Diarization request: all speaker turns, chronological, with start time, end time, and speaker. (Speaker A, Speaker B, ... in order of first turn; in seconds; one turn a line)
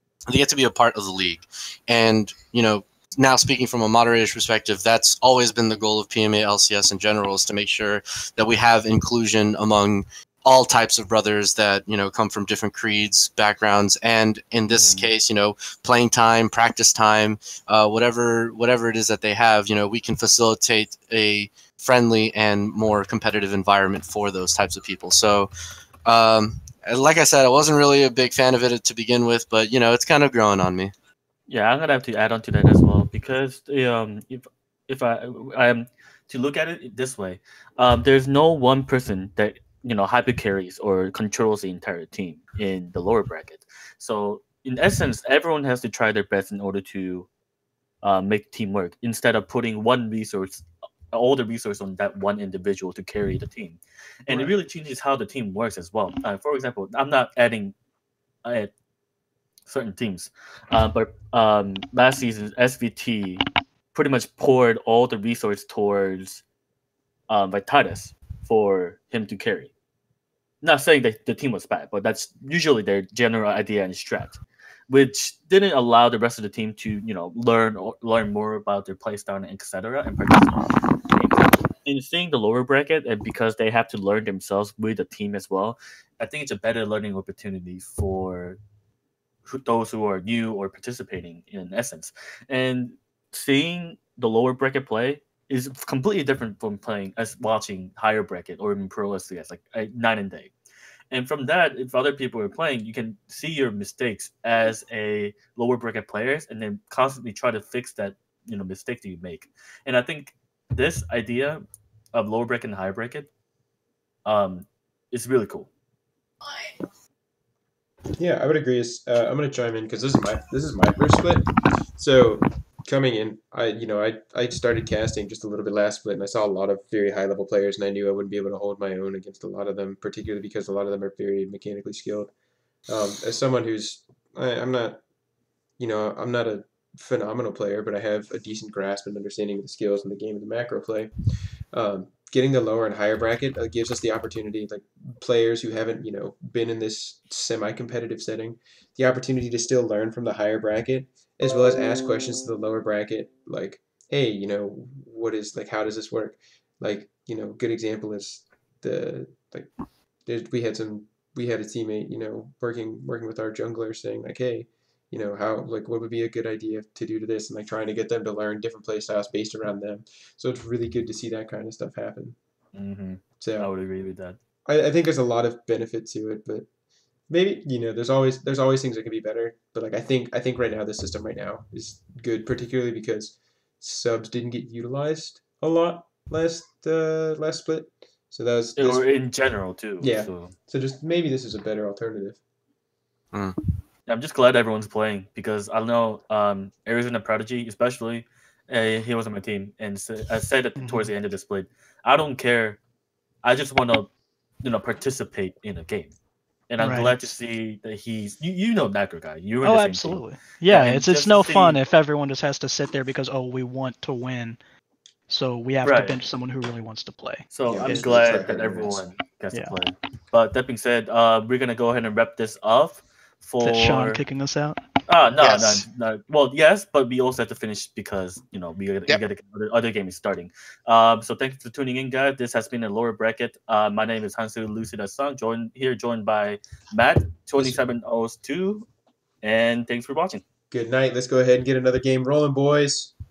Speaker A: 0.3-25.5
Speaker B: 14.7-15.1
Speaker A: 26.0-30.9
Speaker B: 31.5-47.3
Speaker B: 48.0-57.8
Speaker C: 54.3-54.5
Speaker B: 58.4-58.7
Speaker B: 59.6-66.4
Speaker B: 67.3-69.7
Speaker B: 70.6-88.6
Speaker B: 89.4-100.5
Speaker B: 101.1-113.3
Speaker B: 114.2-115.7
Speaker D: 118.2-132.3
Speaker D: 132.9-135.0
Speaker D: 135.8-141.1
Speaker D: 141.7-159.7
Speaker D: 160.2-172.3
Speaker B: 172.7-174.4
Speaker D: 173.4-173.7
Speaker D: 174.7-176.7
Speaker D: 177.3-189.0
Speaker B: 188.8-190.5
Speaker D: 190.0-192.4
Speaker B: 194.1-202.8
Speaker C: 200.8-201.1
Speaker B: 203.4-204.1
Speaker B: 204.6-206.1
Speaker B: 206.7-211.8
Speaker C: 206.8-207.3
Speaker C: 209.6-214.6
Speaker C: 215.3-218.2
Speaker B: 215.8-216.2
Speaker B: 217.5-224.2
Speaker D: 217.7-219.1
Speaker C: 219.5-219.8
Speaker C: 223.6-224.8
Speaker B: 225.1-238.9
Speaker D: 237.6-237.8
Speaker B: 239.4-240.4
Speaker D: 240.7-243.1